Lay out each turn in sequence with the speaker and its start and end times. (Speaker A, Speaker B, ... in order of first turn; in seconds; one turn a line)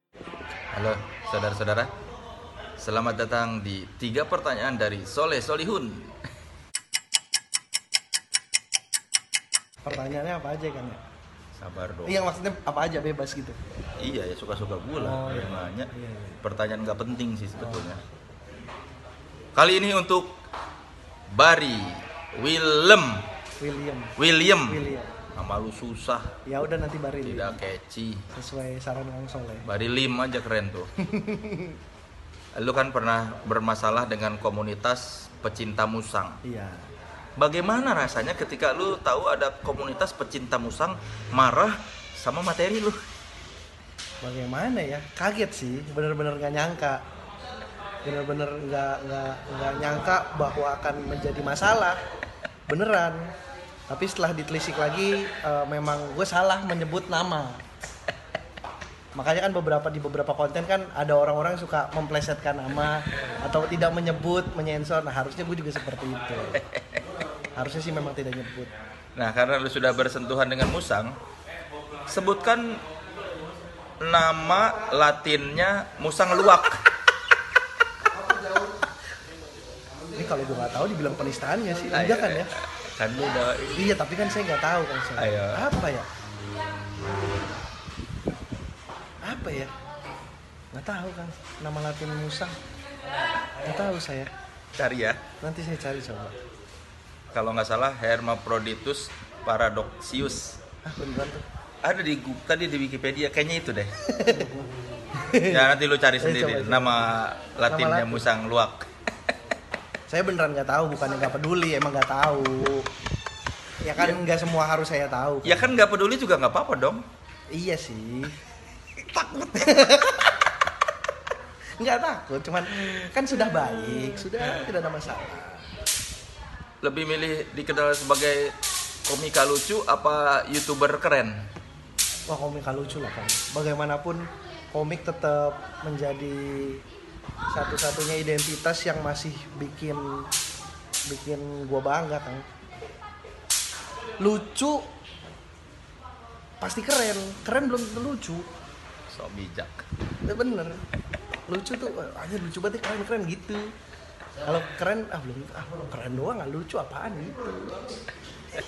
Speaker A: 0.7-1.9
Speaker A: 2.8-6.1
Speaker B: 9.8-11.0
Speaker A: 11.6-12.3
Speaker B: 12.0-13.6
Speaker A: 14.0-15.9
Speaker B: 15.0-16.4
Speaker A: 16.4-18.0
Speaker B: 17.6-17.9
Speaker A: 19.5-20.4
Speaker A: 21.3-23.2
Speaker B: 23.6-24.1
Speaker A: 24.2-24.8
Speaker B: 24.7-25.1
Speaker A: 25.3-26.3
Speaker B: 26.4-27.6
Speaker A: 27.2-28.2
Speaker B: 28.3-29.6
Speaker A: 29.6-30.9
Speaker B: 31.0-31.8
Speaker A: 32.5-36.4
Speaker B: 36.4-36.9
Speaker A: 37.4-43.0
Speaker B: 44.2-47.0
Speaker B: 48.0-52.0
Speaker B: 52.7-53.3
Speaker B: 53.9-57.6
Speaker B: 59.1-66.6
Speaker B: 67.6-68.7
Speaker A: 69.1-71.2
Speaker A: 72.1-72.8
Speaker A: 74.0-76.8
Speaker B: 80.1-82.5
Speaker A: 81.9-83.8
Speaker B: 83.7-86.0
Speaker A: 85.2-85.7
Speaker B: 89.2-89.7
Speaker B: 90.7-92.5
Speaker B: 93.6-94.3
Speaker A: 94.7-95.2
Speaker B: 95.4-96.3
Speaker A: 97.3-100.6
Speaker B: 100.8-101.4
Speaker A: 101.8-103.9
Speaker B: 104.1-105.7
Speaker A: 105.5-108.9
Speaker B: 106.2-107.0
Speaker B: 107.7-108.3
Speaker B: 110.1-112.9
Speaker B: 113.8-115.8
Speaker A: 114.0-114.3
Speaker A: 115.4-117.0
Speaker B: 117.5-118.4
Speaker B: 119.0-120.3
Speaker B: 121.8-125.7
Speaker A: 123.4-124.4
Speaker A: 126.8-131.4
Speaker B: 132.3-136.8
Speaker B: 137.5-140.3
Speaker B: 141.1-142.4
Speaker B: 144.2-144.8
Speaker B: 146.6-148.4
Speaker A: 149.1-149.8
Speaker B: 150.2-150.8
Speaker B: 151.5-153.6
Speaker B: 154.4-157.9